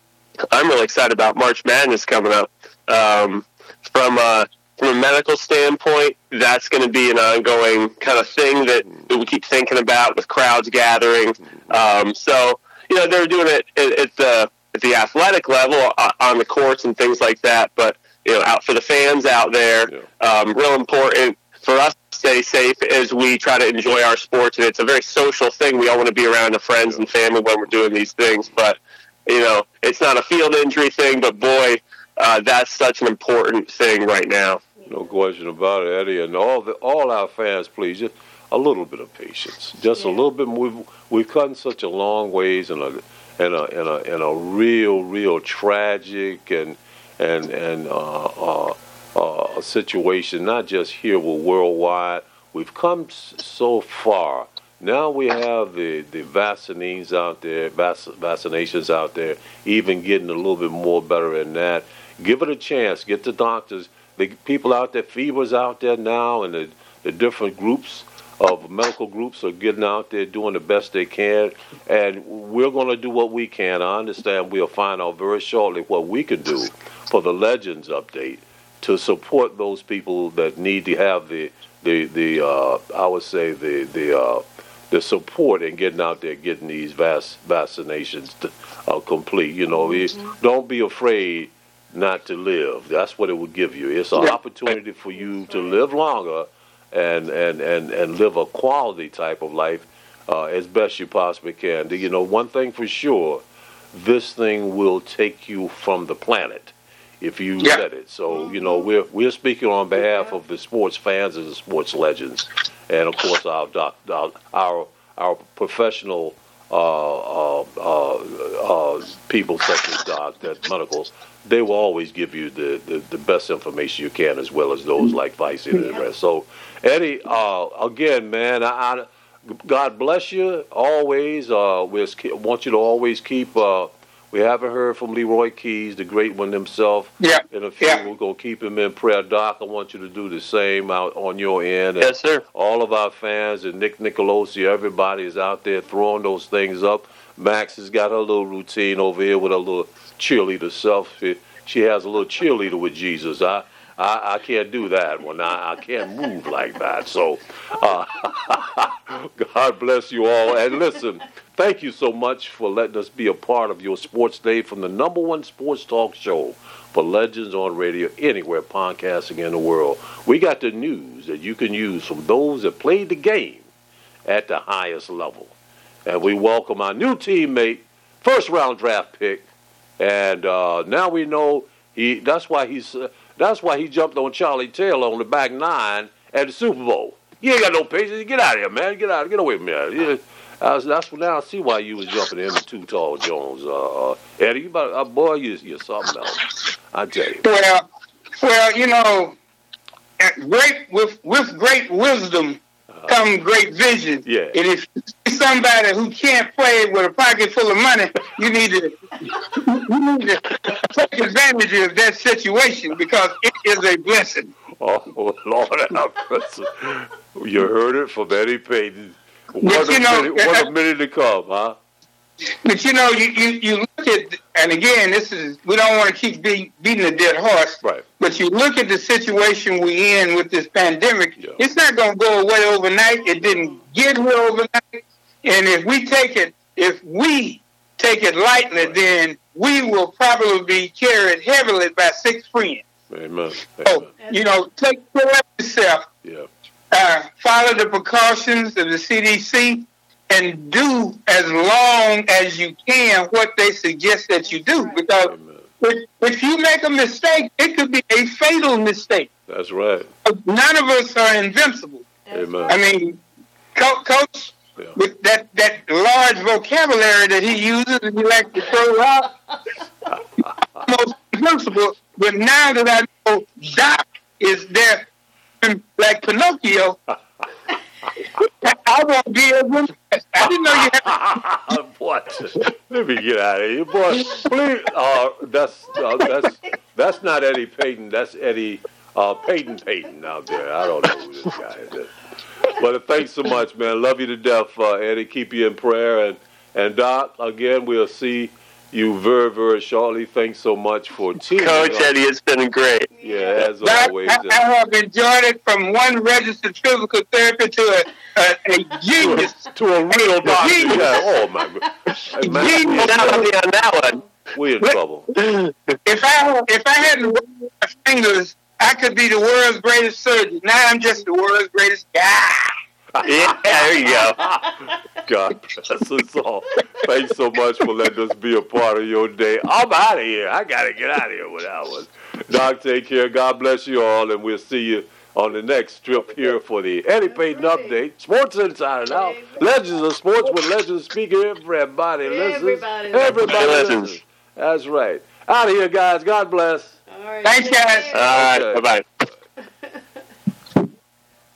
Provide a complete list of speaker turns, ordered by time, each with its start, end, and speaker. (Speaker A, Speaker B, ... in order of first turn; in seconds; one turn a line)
Speaker A: 0.5-34.6
Speaker B: 34.8-35.1
Speaker C: 34.9-103.4
Speaker B: 40.0-40.2
Speaker C: 103.9-173.7
Speaker D: 137.2-138.0
Speaker A: 142.0-142.4
Speaker C: 174.3-175.5
Speaker C: 176.1-179.5
Speaker C: 180.0-197.5
Speaker D: 197.4-199.4
Speaker D: 200.2-214.5
Speaker C: 204.2-204.6
Speaker C: 214.8-221.8
Speaker D: 219.6-220.7
Speaker D: 222.6-242.8
Speaker C: 243.1-244.1
Speaker D: 243.8-246.1
Speaker D: 246.9-259.3
Speaker B: 254.4-255.1
Speaker C: 255.2-255.7
Speaker C: 259.5-260.1
Speaker D: 260.2-262.1
Speaker B: 262.3-262.8
Speaker C: 262.3-262.8
Speaker D: 262.7-263.2
Speaker D: 263.8-269.3
Speaker D: 270.8-275.1
Speaker D: 275.6-277.0
Speaker D: 278.4-281.2
Speaker C: 280.7-302.1
Speaker A: 301.6-303.1
Speaker B: 303.1-303.7
Speaker C: 303.2-304.6
Speaker D: 303.8-309.6
Speaker C: 309.2-313.5
Speaker A: 310.2-311.1
Speaker D: 310.4-311.2
Speaker D: 312.4-313.4
Speaker A: 312.5-314.2
Speaker C: 314.5-315.3
Speaker A: 315.3-316.0
Speaker D: 316.1-322.7
Speaker C: 323.2-347.0
Speaker A: 323.2-324.4
Speaker B: 337.3-337.9
Speaker B: 339.1-339.7
Speaker B: 342.2-343.9
Speaker A: 343.4-344.2
Speaker B: 347.1-348.5
Speaker D: 347.4-348.1
Speaker A: 348.1-349.0
Speaker C: 348.2-348.9